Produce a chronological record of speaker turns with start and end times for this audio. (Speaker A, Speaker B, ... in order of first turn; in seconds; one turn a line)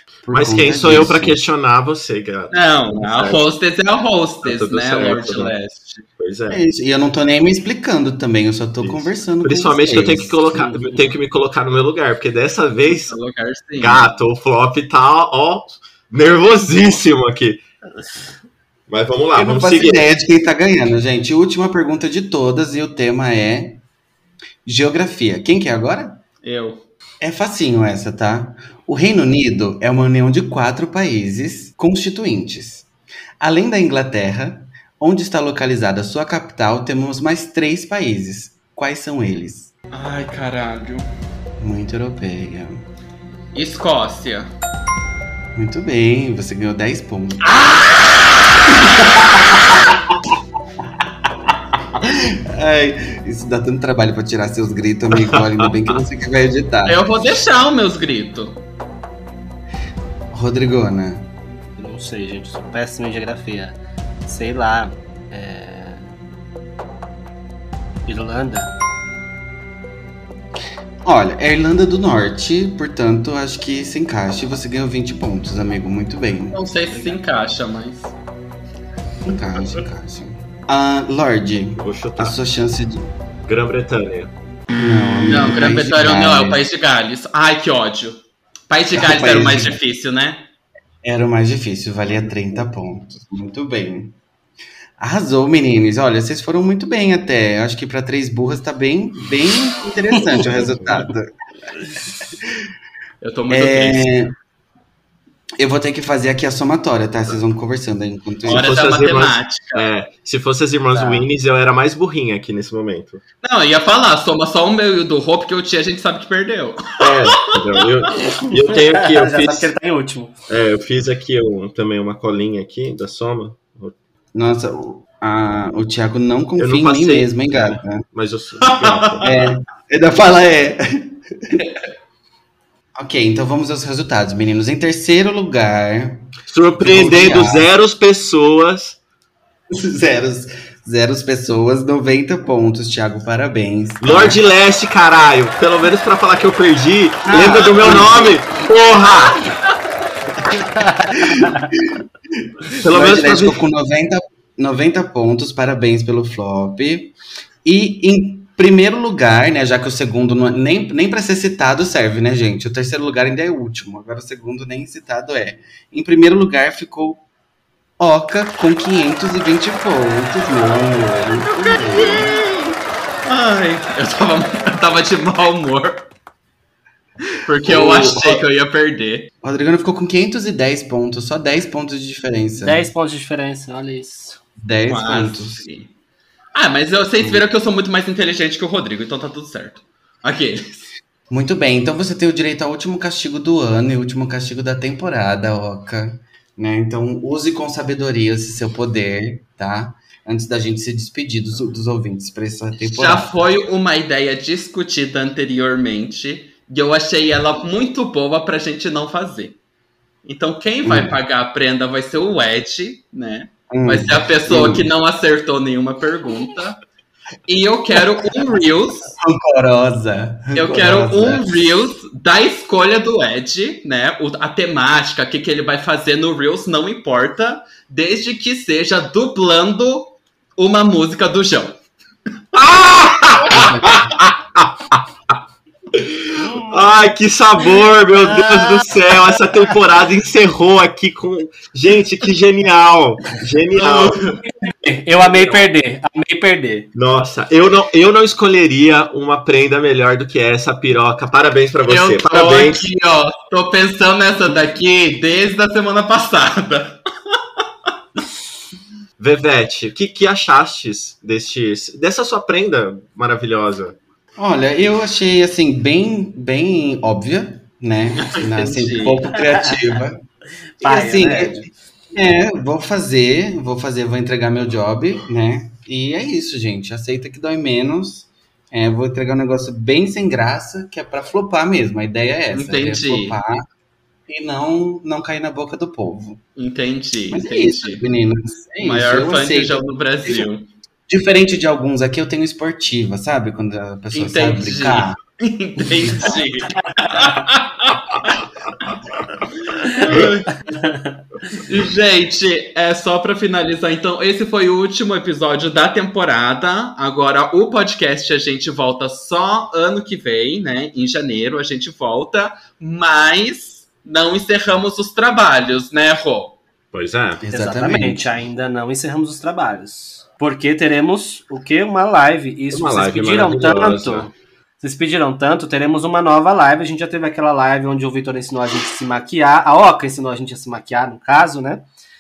Speaker A: 0.2-1.4
Speaker B: 0.3-3.4
Speaker C: 2.5-6.1
Speaker B: 4.4-5.5
Speaker B: 6.2-6.6
Speaker A: 6.5-10.4
Speaker B: 8.8-13.2
Speaker D: 10.5-11.0
Speaker C: 13.1-14.1
Speaker B: 13.8-17.6
Speaker B: 18.9-20.0
Speaker A: 19.4-23.8
Speaker A: 24.7-26.2
Speaker C: 26.4-26.8
Speaker A: 27.2-32.9
Speaker A: 33.4-39.7
Speaker C: 39.9-41.1
Speaker A: 41.6-42.8
Speaker C: 43.5-44.5
Speaker A: 45.5-47.5
Speaker C: 47.5-48.4
Speaker A: 49.2-49.7
Speaker A: 52.0-57.1
Speaker B: 55.2-55.7
Speaker C: 56.9-58.6
Speaker A: 60.3-61.3
Speaker D: 61.8-66.1
Speaker D: 68.1-68.7
Speaker A: 71.0-76.6
Speaker C: 76.5-78.1
Speaker A: 79.3-83.1
Speaker B: 81.8-82.4
Speaker B: 83.5-84.3
Speaker A: 84.8-86.6
Speaker C: 85.3-88.2
Speaker C: 88.7-90.4
Speaker A: 88.9-89.8
Speaker A: 91.0-94.2
Speaker A: 95.0-101.3
Speaker C: 103.2-104.2
Speaker A: 103.5-104.3
Speaker A: 105.6-108.7
Speaker B: 108.5-113.2
Speaker C: 108.5-109.9
Speaker D: 110.9-111.3
Speaker C: 113.4-117.9
Speaker B: 117.0-119.7
Speaker D: 118.2-120.3
Speaker B: 120.5-124.0
Speaker A: 124.3-128.1
Speaker B: 126.6-129.3
Speaker C: 128.7-129.3
Speaker A: 129.2-131.6
Speaker A: 133.0-136.2
Speaker B: 136.5-139.0
Speaker A: 136.8-137.7
Speaker A: 139.7-144.4
Speaker B: 144.0-149.5
Speaker A: 147.3-148.4
Speaker D: 150.6-151.7
Speaker A: 151.1-167.3
Speaker B: 152.7-153.6
Speaker A: 168.0-172.4
Speaker C: 171.2-176.1
Speaker C: 177.3-179.3
Speaker A: 177.7-178.4
Speaker A: 179.4-182.9
Speaker D: 182.6-184.4
Speaker A: 184.6-185.6
Speaker C: 184.9-185.9
Speaker C: 186.6-190.8
Speaker A: 187.2-187.4
Speaker A: 191.3-203.3
Speaker C: 202.8-209.6
Speaker C: 210.2-216.8
Speaker A: 210.8-211.2
Speaker A: 213.7-214.9
Speaker C: 217.5-219.2
Speaker A: 219.2-221.8
Speaker C: 220.6-231.8
Speaker B: 232.5-235.0
Speaker C: 233.5-233.9
Speaker B: 235.9-244.3
Speaker D: 238.3-238.8
Speaker C: 243.8-244.4
Speaker D: 244.6-246.9
Speaker B: 246.9-252.8
Speaker C: 251.9-257.0
Speaker B: 259.2-264.0
Speaker A: 264.4-270.2
Speaker C: 268.2-269.2
Speaker D: 270.8-271.7
Speaker A: 270.8-283.7
Speaker C: 282.5-283.4
Speaker A: 284.3-286.4
Speaker C: 286.6-288.0
Speaker A: 287.3-290.5
Speaker C: 288.8-290.7
Speaker A: 291.1-295.2
Speaker C: 294.1-298.4
Speaker C: 299.7-300.6
Speaker D: 300.7-301.2
Speaker C: 301.5-316.6
Speaker B: 316.9-317.4
Speaker A: 317.4-318.3
Speaker D: 317.5-331.9
Speaker B: 322.7-324.3